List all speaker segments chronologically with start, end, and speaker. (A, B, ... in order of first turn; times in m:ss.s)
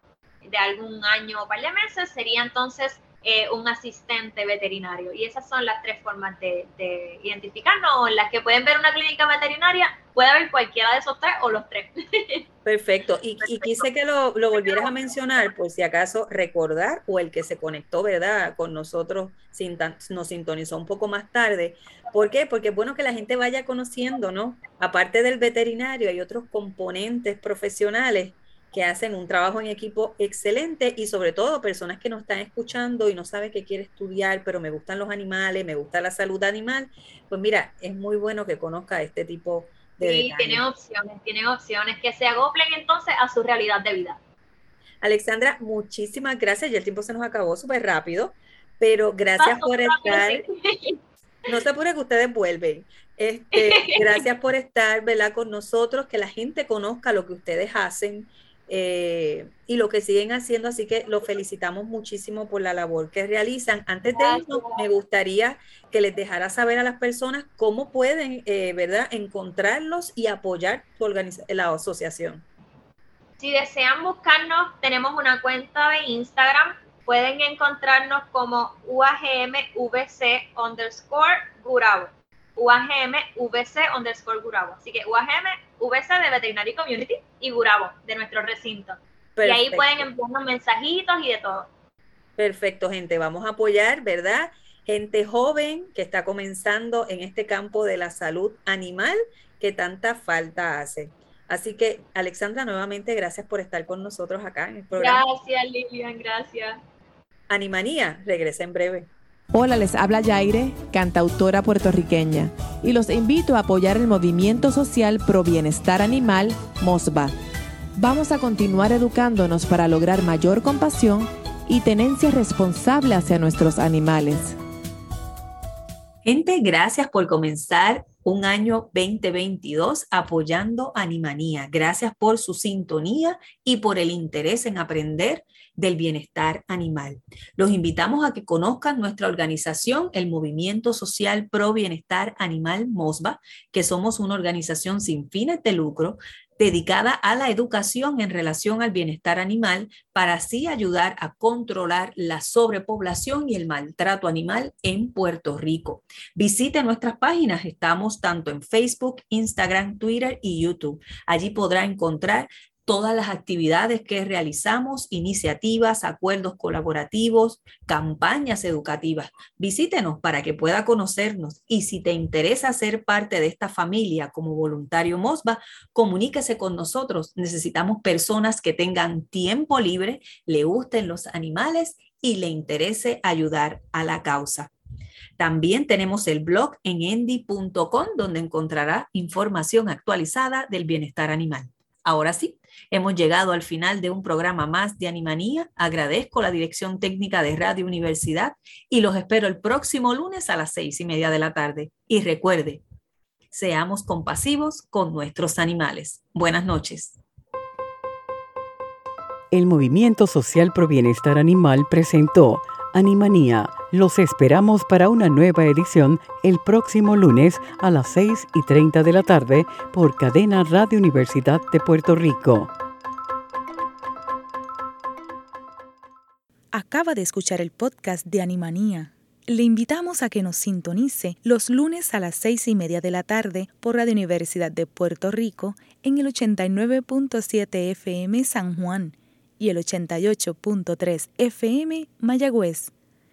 0:00.4-0:12.4 A
0:12.6-0:40.6 B
0:40.0-0:44.2 A
0:45.0-0:50.5 B
0:49.4-0:51.0 A
0:51.5-1:12.4 B
0:53.5-0:54.2 A
1:04.2-1:04.8 A
1:13.4-1:31.7 A
1:29.4-1:30.1 B
1:32.4-1:45.2 B
1:45.0-1:46.8 A
1:47.5-1:49.1 B
1:49.5-1:57.3 C
1:58.0-2:04.6 C
2:06.2-3:04.7 B
3:05.4-3:22.8 B
3:23.5-3:27.2 B
3:29.5-3:42.7 D
3:46.7-4:02.9 E